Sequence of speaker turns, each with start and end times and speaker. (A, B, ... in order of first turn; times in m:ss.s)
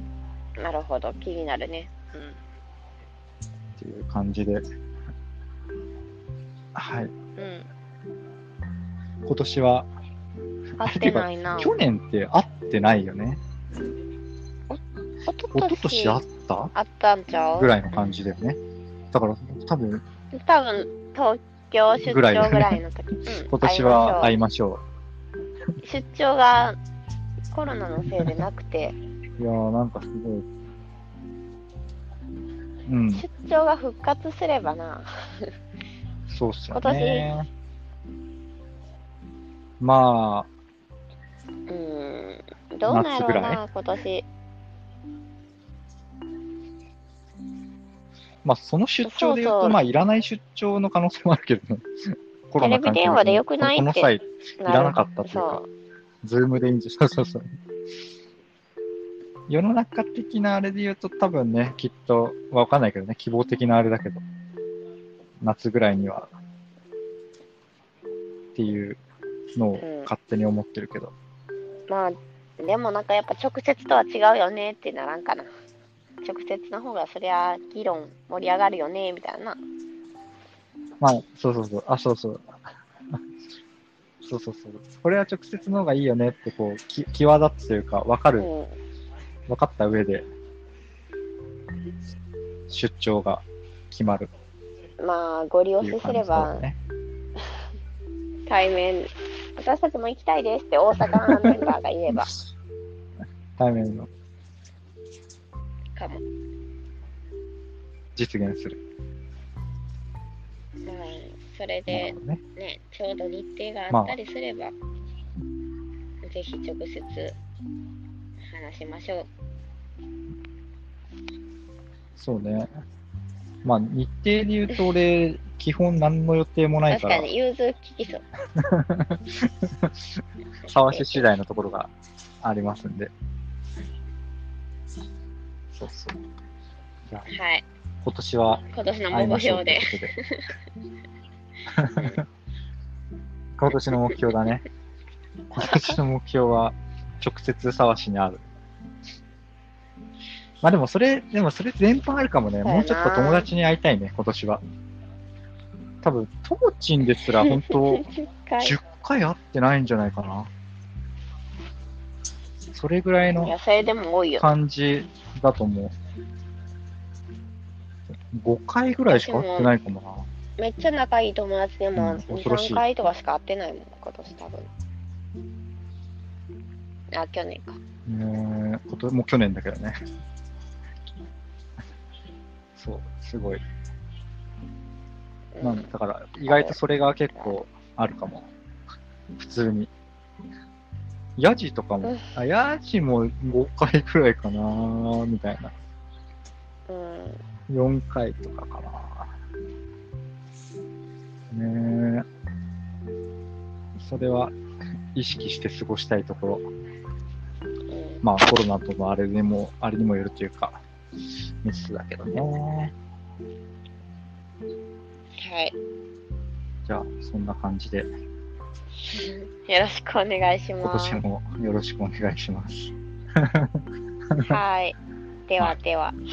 0:00.6-0:02.4 A
0:03.8-0:04.6 B
0:06.7-0:07.1 B
0:07.4-0:07.7 A
0:09.2-0:09.9 B
0:10.8-0:11.8 A
0:10.8-0:13.4 B
0:14.7-0:16.2 A
0:15.5-0:16.7 B
0:16.7-0:18.2 A
0:17.6-0:18.6 B
0:19.1-0:20.0 B
0:20.3-0:24.3 A
0:22.0-0:22.8 B
0:23.3-0:24.8 B
0:25.8-0:26.8 A
0:27.5-0:28.9 A
0:28.1-0:28.4 B
0:29.4-0:30.4 B
0:32.9-0:33.2 B
0:33.1-0:35.5 A
0:36.3-0:37.5 B
0:36.7-0:37.3 A
0:39.8-0:40.5 B
0:41.7-0:44.2 A
0:42.9-0:43.6 B
0:48.4-0:55.6 B
0:49.0-0:49.8 A
0:52.6-0:55.7 A
0:56.2-0:57.5 B
0:59.5-1:04.2 B
1:05.4-1:06.3 B
1:08.5-1:09.0 B
1:09.5-1:11.1 B
1:09.8-1:10.1 A
1:11.9-1:15.5 A
1:16.2-1:19.6 A
1:21.0-1:23.2 B
1:24.2-1:28.5 B
1:28.4-1:28.8 A
1:29.5-1:30.2 B
1:32.7-1:34.3 B
1:35.0-1:36.6 A
1:35.8-1:36.8 B
1:38.5-1:42.3 A
1:41.1-1:42.4 B
1:43.6-1:44.1 B
1:46.0-1:46.2 A
1:48.1-1:48.8 B
1:50.8-1:54.7 A
1:51.9-1:52.4 B
1:53.9-1:54.2 B
1:56.2-1:57.3 A
1:58.5-1:59.3 A
2:02.2-2:02.7 B
2:03.6-2:07.3 B
2:06.9-2:08.2 A
2:08.6-2:13.1 B
2:10.6-2:11.3 A
2:15.7-2:16.3 B
2:17.3-2:17.6 A
2:18.0-2:20.1 B
2:18.7-2:20.5 A
2:21.7-2:22.2 B
2:21.9-2:22.2 A
2:23.6-2:24.6 B
2:25.5-2:28.4 B
2:30.6-2:34.6 B
2:32.6-2:33.5 A
2:36.0-2:40.5 B
2:37.4-2:38.8 A
2:42.7-2:43.5 B
2:43.4-2:44.5 A
2:44.4-2:45.9 B
2:48.1-2:50.3 B
2:49.1-2:49.7 A
2:50.6-2:54.7 A
2:52.0-2:52.8 B
2:57.1-2:57.8 A
2:58.1-3:00.0 B
3:02.8-3:03.6 B
3:05.5-3:05.9 A
3:05.6-3:08.5 B
3:06.5-3:06.8 A
3:07.3-3:07.6 A
3:09.4-3:09.9 B
3:11.4-3:15.7 B
3:12.0-3:12.3 A
3:16.9-3:17.4 A
3:17.7-3:19.3 B
3:21.5-3:22.2 B
3:24.0-3:24.5 B
3:25.1-3:26.6 B
3:27.9-3:28.2 A
3:28.2-3:30.8 B
3:31.6-3:32.9 B
3:35.4-3:35.8 A
3:36.8-3:38.1 B
3:39.0-3:41.2 A
3:40.8-3:44.6 B
3:44.4-3:46.2 A